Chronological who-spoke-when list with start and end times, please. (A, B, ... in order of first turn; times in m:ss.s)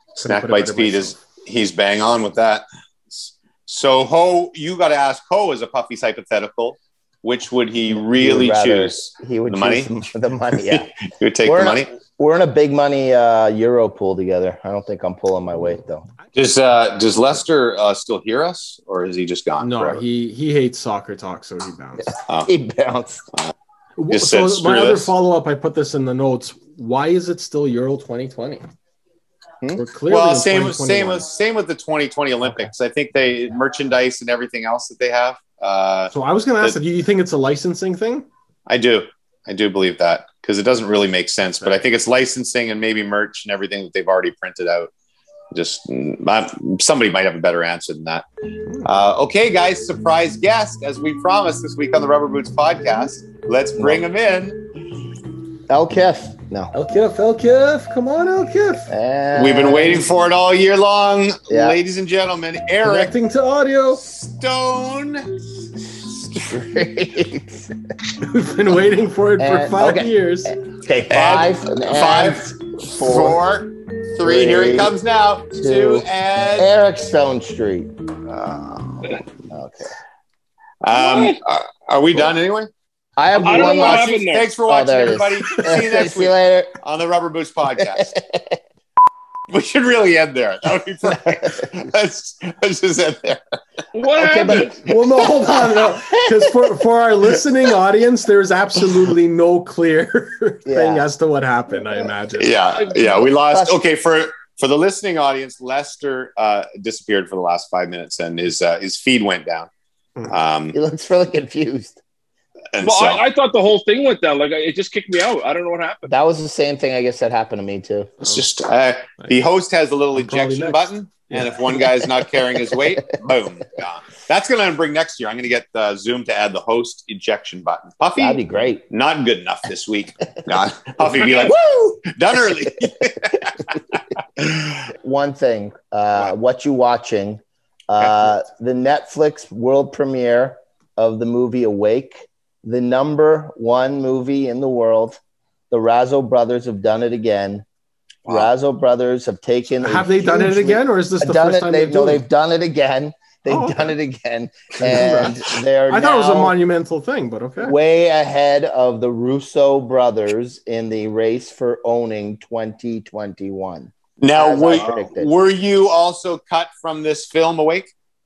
0:00.2-0:09.9 A
0:00.2-0:01.2 B
0:07.9-0:10.9 C
0:10.7-0:11.9 A
0:11.4-0:16.1 C
0:16.4-0:20.0 A
0:19.6-0:22.1 B
0:22.0-0:23.2 C
0:24.0-0:28.6 B
0:24.1-0:25.1 A
0:29.7-0:36.8 A
0:29.8-0:31.3 B
0:36.1-0:38.3 B
0:38.7-0:44.9 A
0:45.5-0:48.3 A
0:48.8-0:54.6 A
0:53.8-0:54.0 C
0:55.7-0:56.8 C
0:56.7-0:58.9 B
0:58.9-1:00.1 C
0:59.4-1:03.1 A
1:01.5-1:01.8 C
1:02.8-1:04.0 B
1:04.0-1:05.4 A
1:06.4-1:07.7 C
1:08.2-1:10.5 B
1:09.4-1:13.4 C
1:11.1-1:16.7 A
1:14.2-1:14.9 C
1:15.6-1:16.1 C
1:16.6-1:17.9 C
1:18.3-1:19.2 A
1:19.5-1:19.9 C
1:20.8-1:22.7 A
1:20.9-1:21.4 D
1:23.2-1:26.8 C
1:23.3-1:28.1 A
1:23.4-1:24.5 D
1:28.0-1:28.6 C
1:29.5-1:33.4 A
1:33.9-1:34.8 D
1:34.2-1:34.9 C
1:34.8-1:42.6 B
1:36.1-1:36.4 C
1:40.7-1:41.1 C
1:42.4-1:49.7 A
1:43.5-1:43.8 C
1:50.3-1:50.8 A
1:50.7-1:52.0 C
1:52.7-1:53.2 A
1:52.8-1:56.1 D
1:56.1-1:58.1 C
1:58.2-2:13.8 A
2:00.2-2:01.6 B
2:08.2-2:08.8 C
2:11.5-2:12.0 C
2:15.0-2:25.2 C
2:18.0-2:18.3 A
2:25.7-2:27.6 C
2:28.3-2:28.5 A
2:28.3-2:36.6 C
2:29.8-2:32.3 B
2:33.5-2:33.9 B
2:34.8-2:37.8 B
2:37.6-2:45.3 C
2:44.2-2:47.9 A